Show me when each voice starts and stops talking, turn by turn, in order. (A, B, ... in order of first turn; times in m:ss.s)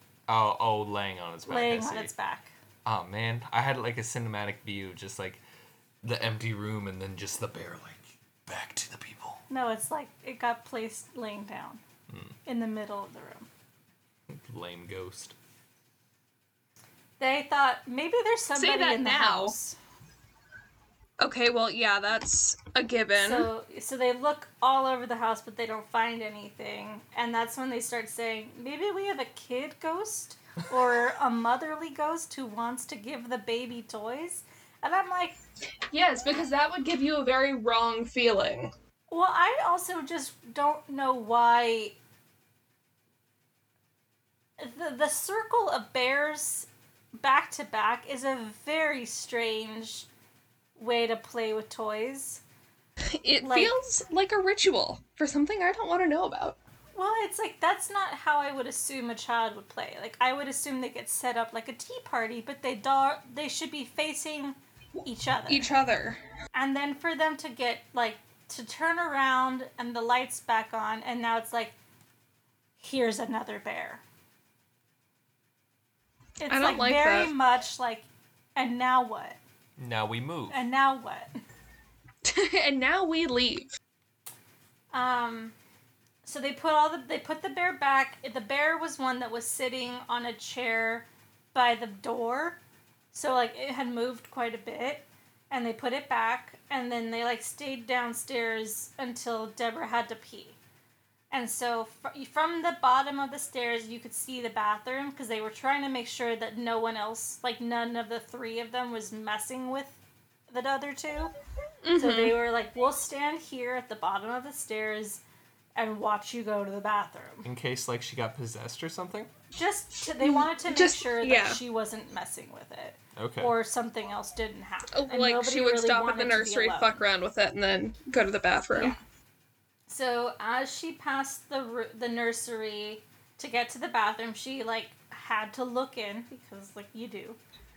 0:00.3-0:02.1 A
0:01.4-0:02.5 B
0:02.8-0:05.4 A
0:06.0-0:09.4 A
0:09.5-0:11.8 B
0:12.1-0:12.4 A
0:12.4-0:13.5 B
0:14.3-0:15.3 A
0:17.2-0:19.8 B
0:18.6-0:19.5 C
0:21.2-0:23.5 C
0:23.2-0:35.4 B
0:35.9-0:38.7 C
0:39.1-0:42.0 B
0:44.6-0:50.1 B
0:50.8-0:52.4 B
0:53.2-0:56.6 C
0:53.4-0:53.8 B
0:57.0-1:05.7 B
1:05.5-1:06.2 C
1:06.5-1:11.7 B
1:12.8-1:14.0 B
1:16.4-1:19.4 B
1:16.5-1:17.3 C
1:19.8-1:20.6 A
1:20.5-1:21.3 B
1:22.2-1:23.7 C
1:24.9-1:25.5 B
1:26.2-1:32.6 B
1:33.1-1:40.6 B
1:41.3-1:51.3 B
1:51.8-1:52.4 C
1:52.0-1:55.2 B
1:55.8-1:57.5 B
1:57.4-1:59.3 A
1:59.5-2:07.0 B
2:00.2-2:01.6 C
2:03.2-2:03.5 A
2:04.9-2:09.0 C
2:08.7-2:09.0 B
2:09.9-2:17.4 B